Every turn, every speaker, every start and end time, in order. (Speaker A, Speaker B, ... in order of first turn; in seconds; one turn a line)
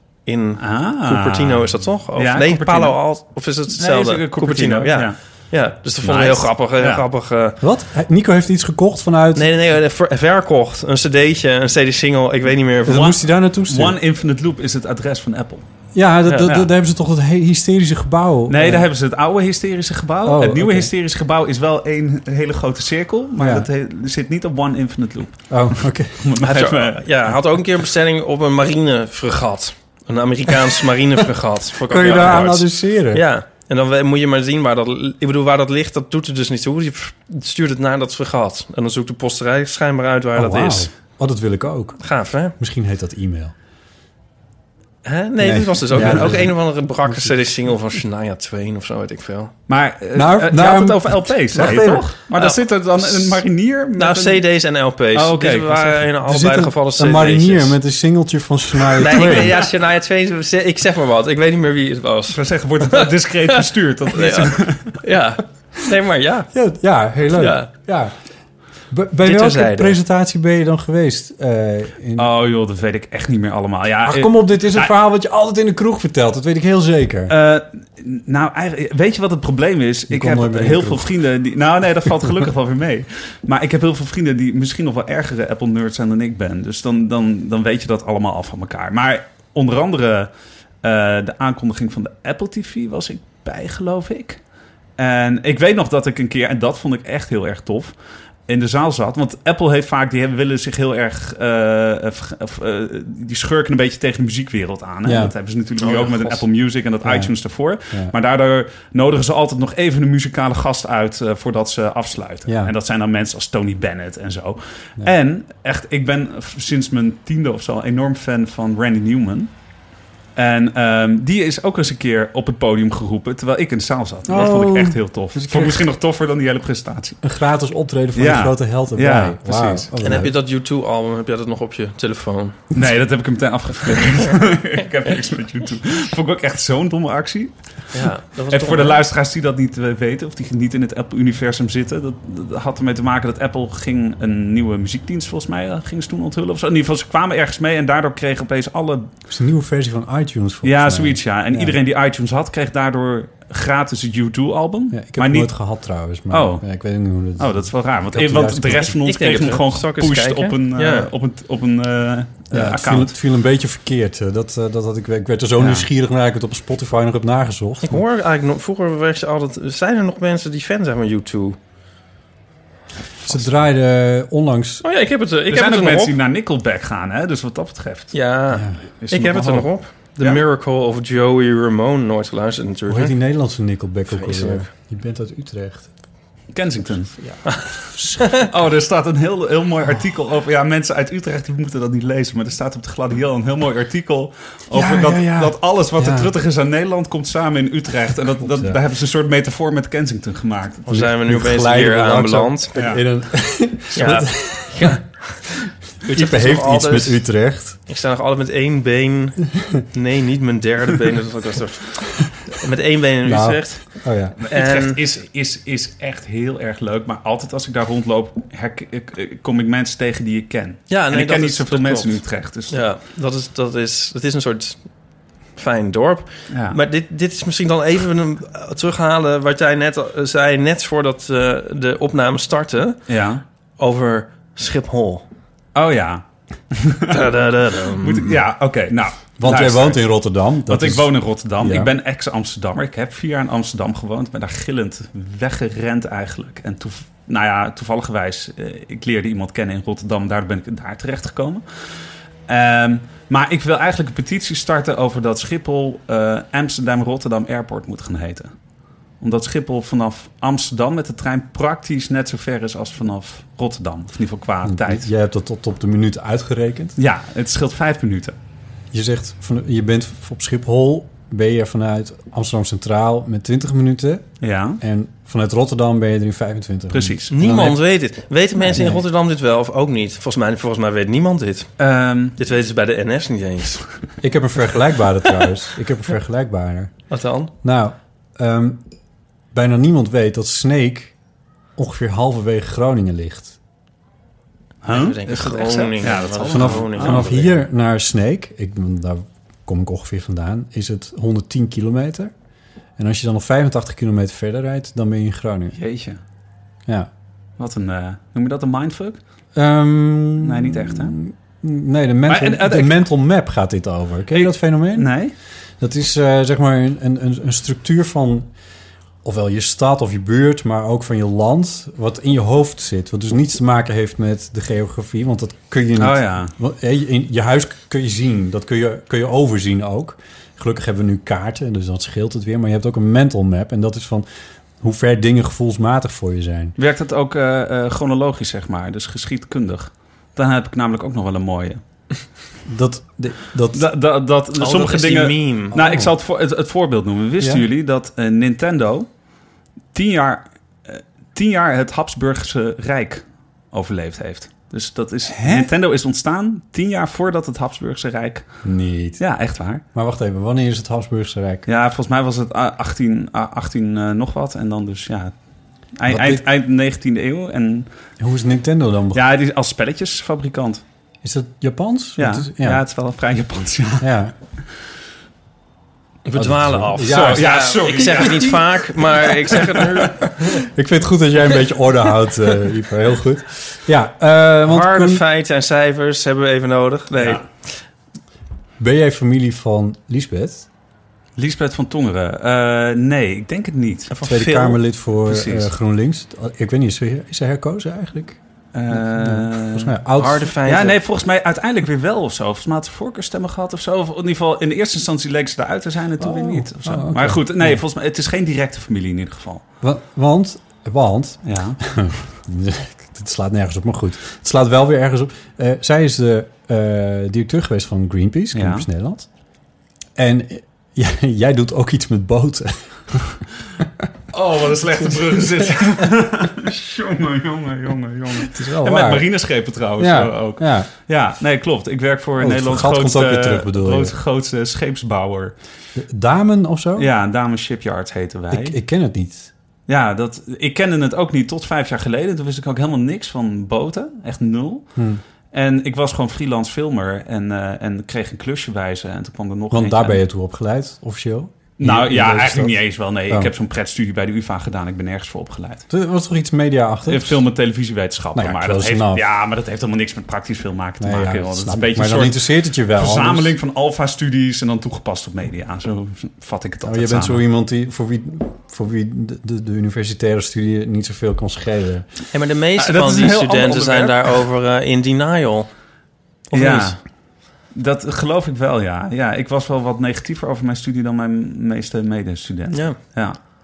Speaker A: 0.2-7.6
Speaker B: 0.6-3.0
Speaker B: 3.7-5.2
Speaker B: 6.0-7.0
Speaker C: 7.6-9.5
Speaker A: 9.3-13.1
Speaker C: 12.9-14.0
Speaker B: 12.9-15.6
Speaker C: 15.9-18.9
Speaker B: 16.4-16.7
Speaker B: 18.5-27.3
Speaker C: 20.2-20.9
Speaker C: 23.4-23.7
Speaker C: 25.5-26.2
Speaker A: 26.4-40.9
Speaker C: 31.9-33.2
Speaker C: 40.4-42.0
Speaker A: 42.0-42.5
Speaker C: 42.6-43.5
Speaker A: 45.0-49.5
Speaker C: 45.4-46.5
Speaker B: 46.0-46.3
Speaker B: 49.7-54.5
Speaker C: 50.1-52.1
Speaker A: 52.3-52.6
Speaker A: 54.0-57.8
Speaker B: 55.1-56.1
Speaker C: 56.2-59.6
Speaker A: 59.0-66.5
Speaker B: 62.3-65.0
Speaker C: 66.5-68.1
Speaker A: 67.3-67.7
Speaker C: 68.9-72.3
Speaker A: 69.2-70.0
Speaker B: 72.2-74.9
Speaker C: 74.0-77.3
Speaker B: 77.3-90.3
Speaker C: 80.1-81.1
Speaker B: 90.8-94.4
Speaker B: 95.0-97.9
Speaker B: 98.5-119.5
Speaker C: 105.0-105.3
Speaker A: 105.8-106.4
Speaker C: 107.0-107.3
Speaker C: 112.5-112.7
Speaker B: 120.4-127.2
Speaker C: 124.3-125.9
Speaker C: 127.2-130.3
Speaker B: 128.2-129.9
Speaker A: 130.0-132.6
Speaker B: 132.7-149.1
Speaker A: 137.9-139.0
Speaker C: 149.3-151.8
Speaker B: 150.6-155.6
Speaker C: 154.9-159.0
Speaker B: 156.3-156.7
Speaker B: 157.4-163.2
Speaker A: 159.0-161.1
Speaker C: 162.5-168.0
Speaker B: 165.6-165.9
Speaker A: 167.8-171.6
Speaker C: 173.2-174.8
Speaker A: 174.8-176.2
Speaker B: 175.5-178.2
Speaker A: 178.1-183.1
Speaker C: 178.5-178.8
Speaker B: 179.0-180.4
Speaker C: 182.9-185.9
Speaker A: 184.1-184.7
Speaker B: 186.5-187.2
Speaker C: 187.2-188.3
Speaker B: 188.4-200.8
Speaker C: 194.7-196.3
Speaker C: 198.4-198.8
Speaker A: 200.9-202.9
Speaker C: 200.9-205.0
Speaker B: 202.7-203.0
Speaker A: 203.9-205.1
Speaker A: 206.1-207.2
Speaker C: 206.1-207.8
Speaker A: 207.9-209.4
Speaker A: 209.9-214.0
Speaker C: 213.2-214.4
Speaker B: 214.4-222.8
Speaker A: 214.5-215.0
Speaker A: 220.9-224.8
Speaker A: 225.6-233.0
Speaker B: 226.5-226.8
Speaker B: 233.1-233.4
Speaker A: 233.8-235.3
Speaker B: 235.8-237.3
Speaker A: 237.1-238.3
Speaker B: 238.0-240.0
Speaker C: 239.4-241.9
Speaker B: 240.7-251.6
Speaker B: 252.5-258.5
Speaker B: 259.2-265.1
Speaker C: 264.6-267.0
Speaker B: 267.0-268.4
Speaker C: 268.9-274.3
Speaker B: 274.4-274.8
Speaker C: 274.8-277.8
Speaker B: 276.9-277.3
Speaker A: 277.3-281.7
Speaker C: 278.6-279.1
Speaker B: 281.8-282.4
Speaker A: 282.4-283.8
Speaker C: 284.2-286.9
Speaker A: 287.1-287.5
Speaker C: 287.6-288.8
Speaker C: 289.5-291.1
Speaker C: 291.8-293.6
Speaker B: 294.8-297.4
Speaker A: 294.9-297.6
Speaker C: 296.4-302.3
Speaker C: 303.0-305.8
Speaker B: 305.8-306.2
Speaker B: 307.6-309.2
Speaker C: 309.6-315.1
Speaker B: 310.4-311.2
Speaker B: 312.3-313.1
Speaker B: 314.3-315.3
Speaker C: 315.8-318.5
Speaker C: 319.2-334.3
Speaker B: 326.0-326.5
Speaker C: 334.8-336.7
Speaker B: 336.8-341.8
Speaker C: 342.7-343.9
Speaker B: 343.7-349.1
Speaker A: 344.6-345.8
Speaker C: 345.7-346.1
Speaker C: 347.4-347.6
Speaker B: 349.9-358.5
Speaker C: 355.3-355.7
Speaker C: 358.6-359.2
Speaker B: 359.2-359.8
Speaker C: 359.9-361.7
Speaker B: 361.7-365.3
Speaker B: 366.0-367.9
Speaker C: 366.1-366.4
Speaker C: 368.2-369.2
Speaker B: 369.1-370.8
Speaker C: 371.2-372.8
Speaker B: 372.2-374.1
Speaker C: 374.0-374.3
Speaker A: 376.2-380.6
Speaker C: 376.4-377.6
Speaker B: 377.0-380.1
Speaker C: 380.5-385.2
Speaker A: 384.6-387.5
Speaker B: 387.2-387.4
Speaker C: 388.8-390.7
Speaker B: 391.4-394.1
Speaker A: 394.1-394.8
Speaker C: 394.3-398.4
Speaker B: 395.3-395.7
Speaker B: 398.7-399.9
Speaker C: 398.9-400.6
Speaker A: 400.2-401.0
Speaker B: 400.6-409.6
Speaker C: 406.2-407.8
Speaker C: 409.8-419.3
Speaker B: 411.4-411.8
Speaker B: 418.5-418.9
Speaker C: 420.2-423.4
Speaker B: 424.3-435.6
Speaker C: 428.5-429.3
Speaker C: 430.0-430.9
Speaker C: 432.4-434.1
Speaker C: 436.0-437.1
Speaker B: 437.0-438.8
Speaker C: 438.5-439.5
Speaker B: 439.9-444.9
Speaker C: 445.0-445.2
Speaker B: 445.5-450.2
Speaker C: 449.7-452.8
Speaker B: 451.8-455.9
Speaker C: 455.9-457.4
Speaker B: 457.1-467.4
Speaker C: 458.4-459.2
Speaker C: 461.0-463.6
Speaker C: 466.8-472.1
Speaker A: 472.3-475.7
Speaker B: 472.8-474.4
Speaker A: 476.5-477.0
Speaker B: 476.5-477.0
Speaker B: 477.7-483.4
Speaker A: 482.7-483.0